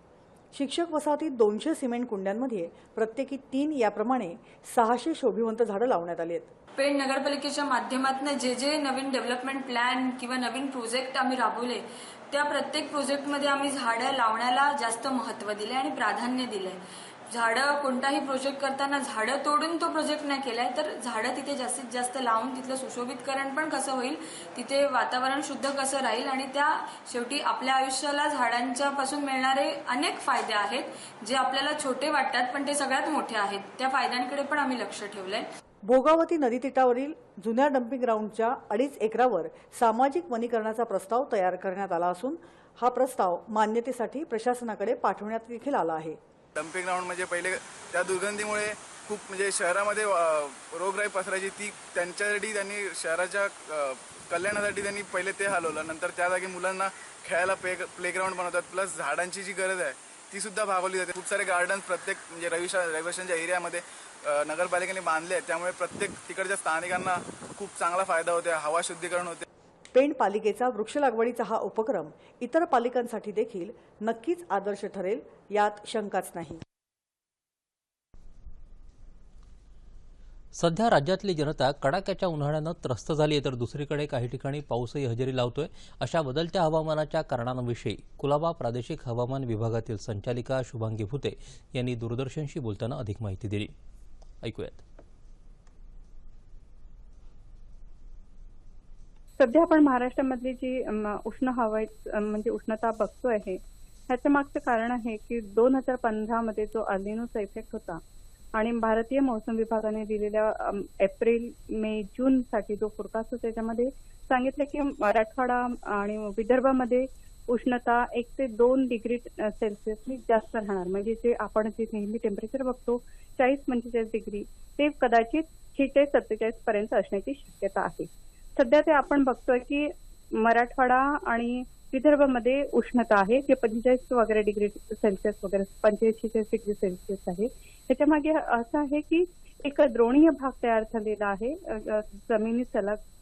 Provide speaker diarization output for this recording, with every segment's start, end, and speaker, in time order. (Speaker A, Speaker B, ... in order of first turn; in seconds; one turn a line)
Speaker A: 0.5-6.5
Speaker B: 6.8-35.5
Speaker A: 35.8-46.2
Speaker C: 46.5-69.5
Speaker A: 69.9-76.6
Speaker D: 80.5-93.7
Speaker D: 94.4-94.8
Speaker E: 99.4-108.0
Speaker E: 108.5-143.0